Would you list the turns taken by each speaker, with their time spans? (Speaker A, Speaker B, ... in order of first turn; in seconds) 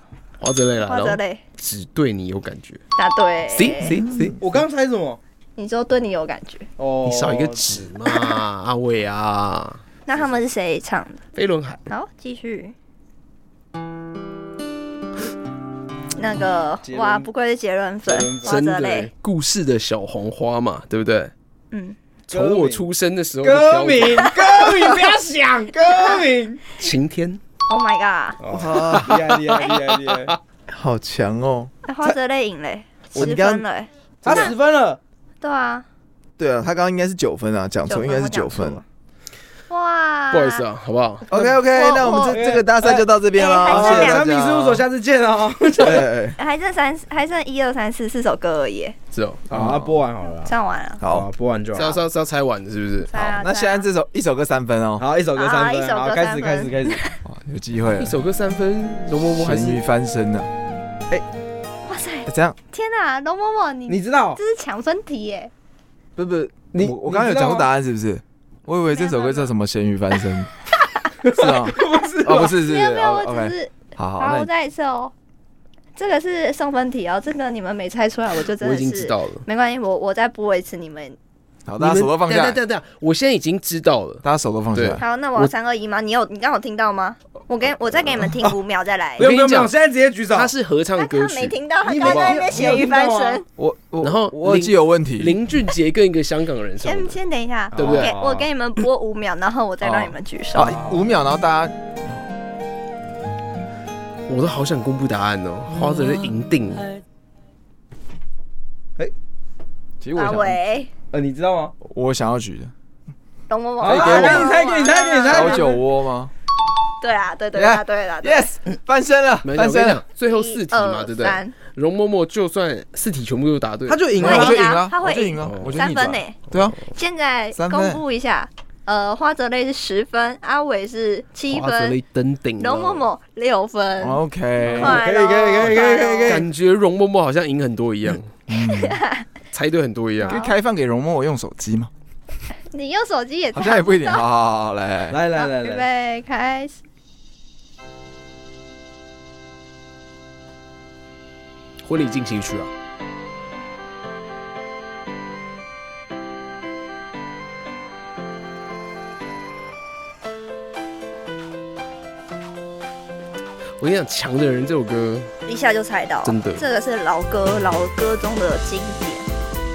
Speaker A: 0.4-2.8, 3.5-4.4, 7.0-9.8, 11.3-11.8, 18.4-21.3, 22.3-24.4, 26.8-27.4, 34.2-34.5, 40.3-41.5, 49.1-49.8, 51.7-53.4, 58.0-59.8, 78.6-79.4, 81.8-85.5, 89.2-89.7, 90.3-92.4, 94.0-97.2, 97.7-98.1, 104.3-106.8, 119.4-124.1, 125.4-125.8, 131.5-133.1, 136.2-138.3, 139.5-140.4, 151.8-152.7, 163.8-165.3, 166.2-166.6
Speaker B: 0.8-1.4, 3.0-4.0, 5.6-6.7, 10.1-11.2, 11.9-12.7, 16.1-19.1, 21.7-22.0, 27.7-28.4, 31.9-34.5, 35.4-35.9, 37.9-38.8, 39.7-40.6, 41.7-42.4, 43.4-44.3, 46.4-49.0, 50.4-51.0, 53.1-53.9, 55.4-57.2, 61.9-65.5, 68.9-69.5, 72.5-75.1, 76.0-81.2, 85.0-89.3, 91.0-93.4, 96.8-100.8, 110.2-110.9, 113.5-115.7, 117.0-118.5, 120.3-121.5, 124.2-132.0, 132.6-134.2, 134.7-136.4, 138.5-139.2, 140.2-140.5, 142.7-144.2, 145.3-146.8, 165.4-169.2
Speaker C: 4.0-4.3, 28.5-29.3, 30.7-31.7, 33.1-33.6, 36.4-38.8, 41.3-44.9, 45.8-46.4, 49.5-50.0, 51.0-51.3, 53.2-55.0, 57.2-58.2, 59.4-60.5, 62.2-62.6, 66.2-70.5, 71.3-74.5, 81.7-82.6, 84.2-85.0, 93.6-95.4, 99.8-102.2, 105.8-106.1, 110.0-110.6, 111.8-112.7, 113.8-114.6, 115.2-116.3, 117.5-120.0, 124.1-126.8, 127.5-128.0, 134.0-135.0, 138.5-139.0, 140.2-141.9, 143.5-145.2
Speaker D: 4.4-5.2, 6.8-7.8, 16.8-17.3, 18.1-18.6, 22.3-22.9, 23.4-26.6, 28.4-30.3, 34.2-35.0, 42.0-43.1, 43.6-46.1, 49.5-50.5, 51.0-52.0, 55.0-57.0, 63.9-64.4, 66.7-67.7, 71.2-72.6, 89.2-90.5, 91.8-93.4, 97.7-98.5, 111.1-111.7, 113.8-115.8, 123.8-124.7, 134.7-136.5, 145.1-145.9